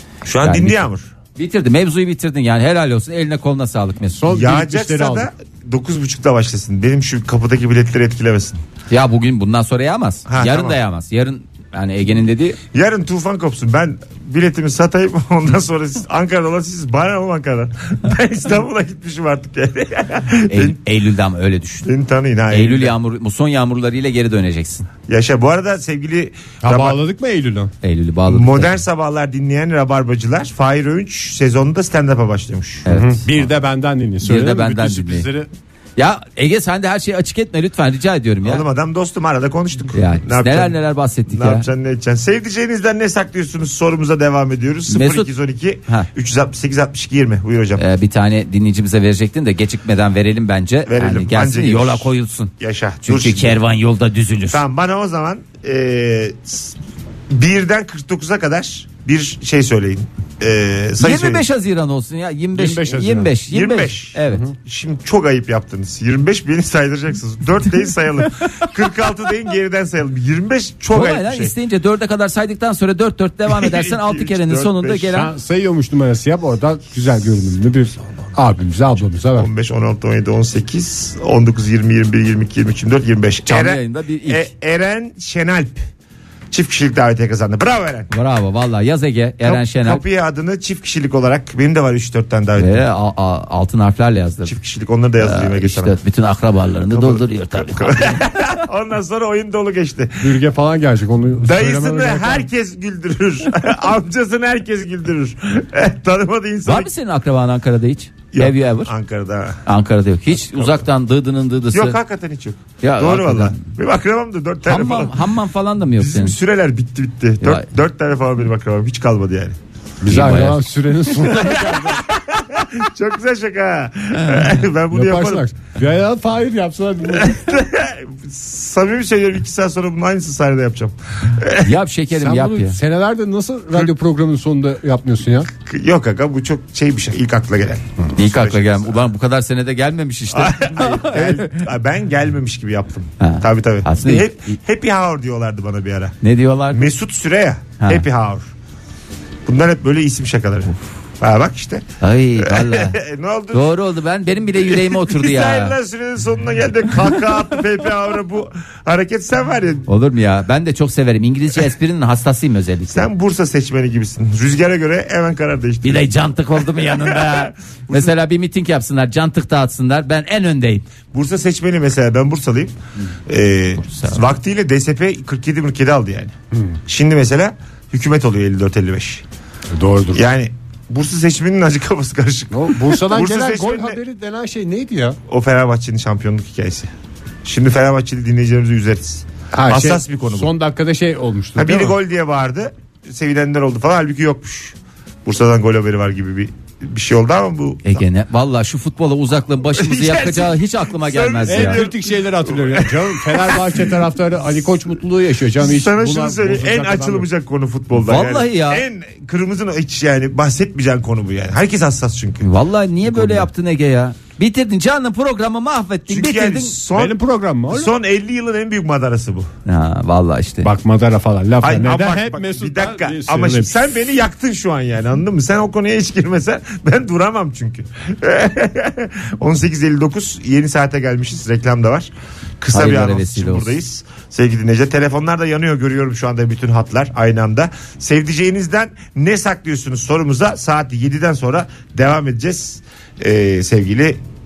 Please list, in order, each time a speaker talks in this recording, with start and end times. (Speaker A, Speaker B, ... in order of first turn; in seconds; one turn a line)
Speaker A: 0.2-1.1
Speaker B: 0.4-0.8
Speaker B: 1.4-4.2
Speaker C: 4.1-5.3
Speaker A: 4.3-8.6
Speaker B: 8.9-12.6
Speaker A: 10.3-10.8
Speaker A: 12.7-20.8
Speaker B: 20.5-21.9
Speaker A: 21.8-22.9
Speaker B: 22.5-24.9
Speaker A: 25.1-27.0
Speaker C: 26.6-27.7
Speaker B: 27.8-28.8
Speaker A: 28.3-32.9
Speaker B: 32.9-33.5
Speaker C: 32.9-35.5
Speaker B: 34.2-35.3
Speaker B: 36.0-38.6
Speaker A: 38.4-47.8
Speaker B: 39.9-41.7
Speaker B: 44.9-45.3
Speaker B: 47.8-54.6
Speaker A: 50.9-53.6
Speaker A: 54.5-56.8
Speaker A: 57.3-61.5
Speaker B: 61.0-64.5
Speaker C: 62.5-63.4
Speaker A: 63.5-71.5
Speaker B: 70.9-75.3
Speaker A: 73.5-75.1
Speaker C: 75.1-79.5
Speaker A: 79.3-85.9
Speaker B: 83.5-84.5
Speaker A: 86.5-88.1
Speaker B: 88.1-90.0
Speaker A: 89.4-92.8
Speaker B: 92.6-94.5
Speaker A: 94.5-96.0
Speaker B: 95.2-98.3
Speaker A: 96.9-100.4
Speaker C: 100.2-102.5
Speaker A: 101.4-106.9
Speaker B: 106.7-108.9
Speaker A: 108.3-109.6
Speaker B: 109.7-112.0
Speaker A: 110.6-110.8
Speaker A: 111.7-115.2
Speaker B: 112.8-113.6
Speaker B: 114.7-116.4
Speaker A: 116.0-119.6
Speaker B: 117.4-117.7
Speaker C: 120.0-122.0
Speaker B: 120.1-120.6
Speaker A: 121.2-125.5
Speaker C: 124.9-127.6
Speaker A: 127.1-131.8
Speaker B: 131.6-132.8
Speaker C: 132.1-135.5
Speaker A: 135.7-139.0
Speaker B: 138.2-141.7
Speaker A: 140.3-146.2
Speaker B: 143.2-144.6
Speaker B: 146.2-146.9
Speaker A: 146.7-148.5
Speaker B: 147.8-148.1
Speaker A: 149.5-151.9
Speaker B: 152.0-153.0
Speaker A: 152.4-153.8
Speaker B: 153.5-155.8
Speaker A: 154.5-159.9
Speaker B: 159.9-163.1
Speaker A: 162.9-168.1
Speaker B: 165.8-170.8
Speaker A: 171.1-172.8
Speaker A: 173.3-176.3
Speaker B: 173.8-174.3
Speaker A: 176.9-179.2
Speaker C: 179.7-180.2
Speaker A: 180.1-184.0
Speaker C: 182.5-185.2
Speaker A: 185.3-186.9
Speaker A: 187.4-190.5
Speaker C: 189.5-192.0
Speaker A: 191.6-198.0
Speaker B: 197.8-201.9
Speaker A: 199.7-204.0
Speaker C: 201.5-207.3
Speaker A: 205.6-212.5
Speaker B: 208.0-208.8
Speaker B: 212.4-216.8
Speaker A: 213.1-213.5
Speaker A: 216.1-219.5
Speaker C: 216.9-217.9
Speaker B: 219.7-220.7
Speaker C: 220.6-223.7
Speaker A: 221.6-244.2
Speaker B: 232.7-233.8